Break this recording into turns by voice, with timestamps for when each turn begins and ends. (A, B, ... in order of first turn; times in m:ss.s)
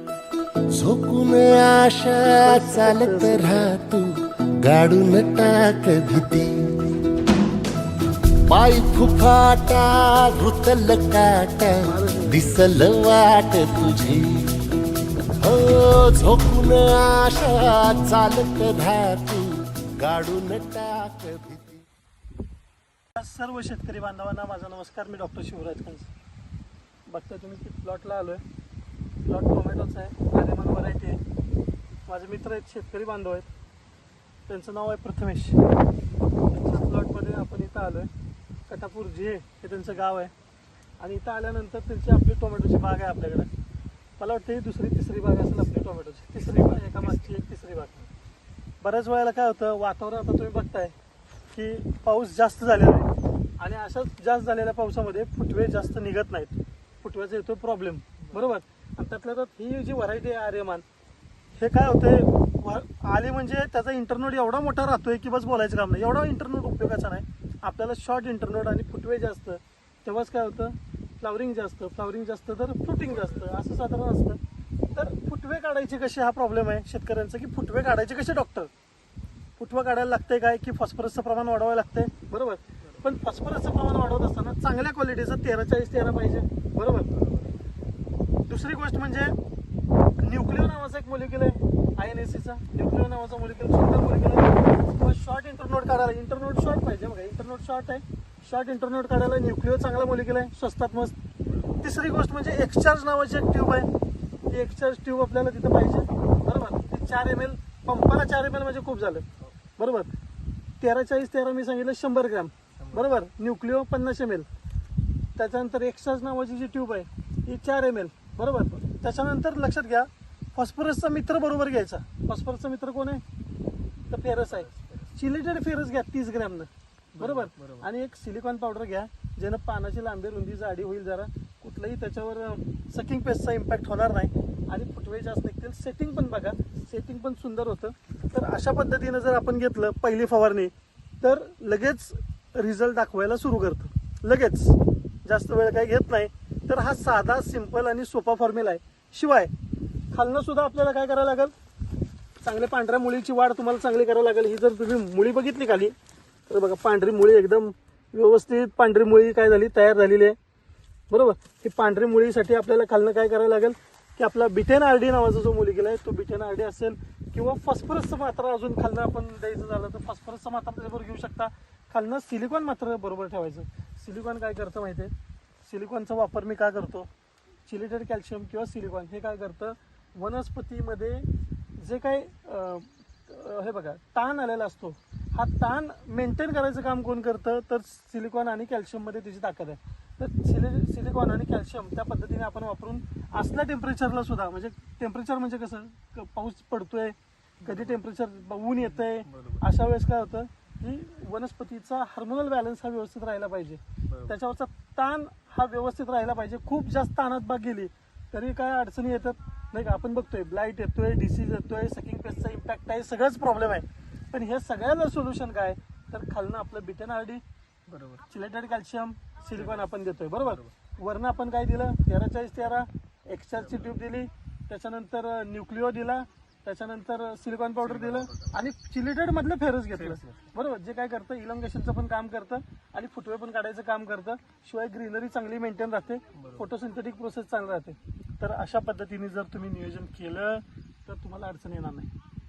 0:00.8-0:06.7 A
0:02.4-0:03.7 B
0:08.5-0:14.6 A
0:11.8-0:12.7 B
0:15.3-0:21.8 A
0:23.2-0:26.1 B
0:27.1-0:28.4 B
0:29.2-0:31.2 B
0:32.1-0:33.5 B
0:34.5-0:35.6 B
0:36.5-0:38.1 B
0:38.7-0:40.3 B
0:41.0-0:43.5 B
0:44.2-0:48.1 B
0:46.4-0:47.3 C
0:48.8-0:50.9 B
0:51.5-1:00.8 B
1:01.6-1:14.4 B
1:13.1-1:13.5 C
1:14.9-1:18.7 B
1:19.6-1:27.1 B
1:27.1-1:27.6 C
1:28.5-1:29.4 B
1:30.2-1:41.2 B
1:41.8-1:43.9 B
1:44.5-1:49.3 B
1:49.8-1:50.1 B
1:50.8-1:54.5 B
1:52.8-1:53.1 C
1:55.4-2:03.2 B
2:04.1-2:29.5 B
2:04.5-2:05.1 C
2:07.2-2:07.8 C
2:30.1-2:31.5 B
2:32.4-2:35.9 B
2:36.5-2:40.4 B
2:41.1-2:57.1 B
2:57.7-3:37.4 B
3:17.6-3:18.0 C
3:19.0-3:19.6 C
3:24.1-3:24.3 C
3:37.9-3:38.3 C
3:38.3-4:02.1 B
3:39.6-3:40.7 C
3:43.6-3:43.9 C
3:47.8-3:48.6 C
3:50.0-3:50.5 C
3:56.3-3:56.6 C